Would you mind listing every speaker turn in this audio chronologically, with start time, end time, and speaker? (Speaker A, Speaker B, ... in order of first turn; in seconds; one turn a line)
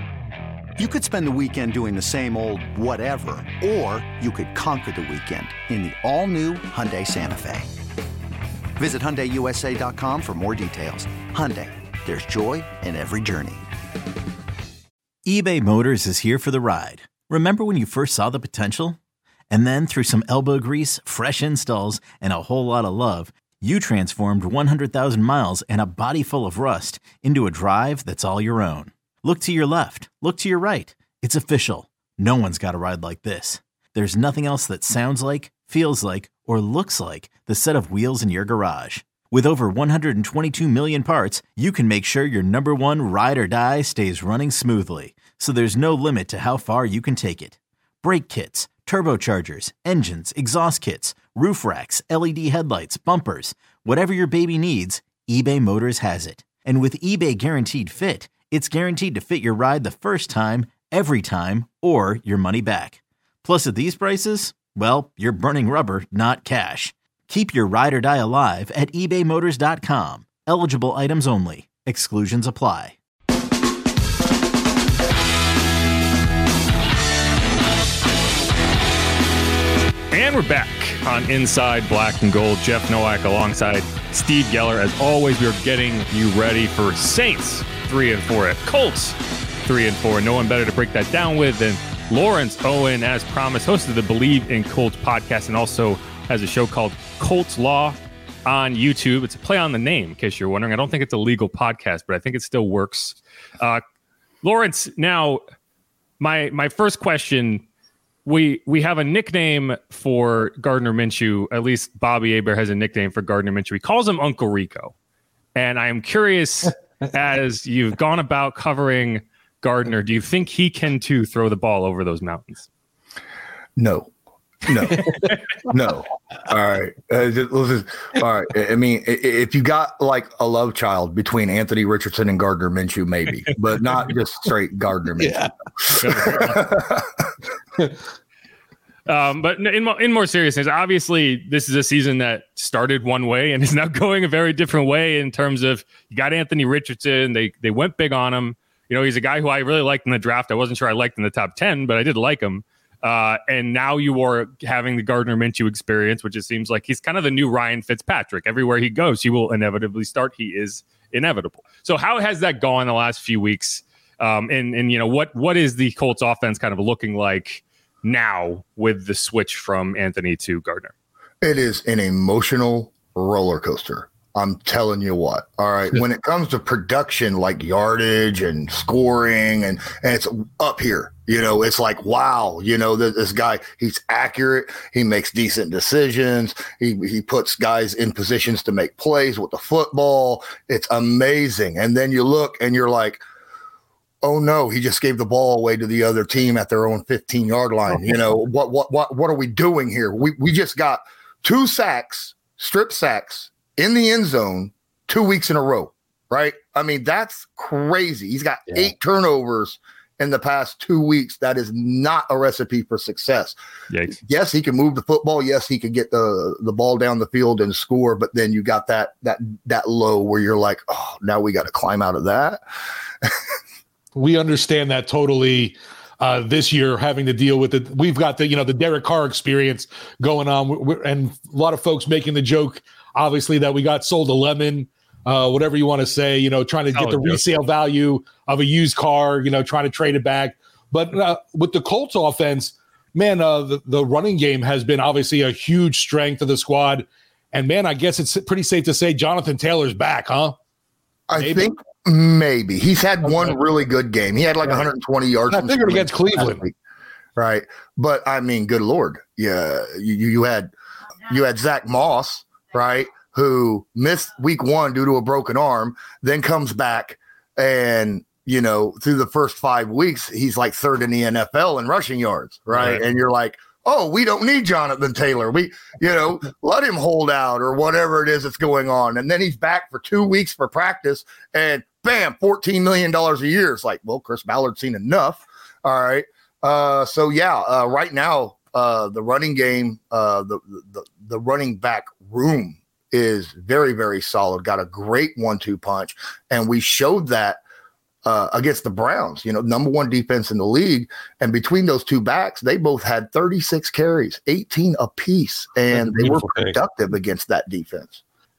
Speaker A: 0.8-7.7
Speaker A: 8.8-13.6
Speaker B: 15.2-19.0
Speaker B: 19.5-73.0
Speaker C: 80.1-103.8
Speaker C: 104.4-105.4
Speaker C: 106.2-107.6
Speaker C: 108.2-114.9
Speaker C: 115.5-122.7
Speaker D: 123.8-124.1
Speaker D: 124.6-137.1
Speaker E: 135.2-135.5
Speaker C: 136.0-136.7
Speaker C: 139.1-170.9
Speaker D: 171.4-193.2
Speaker D: 194.2-213.6
Speaker C: 213.9-214.2
Speaker D: 214.2-222.6
Speaker E: 224.1-250.6
Speaker C: 236.9-237.4
Speaker D: 251.3-256.7
Speaker E: 251.3-251.7
Speaker E: 255.5-256.7
Speaker D: 257.4-260.7
Speaker D: 261.2-297.6
Speaker C: 272.8-273.0
Speaker D: 298.2-308.2
Speaker E: 306.0-306.8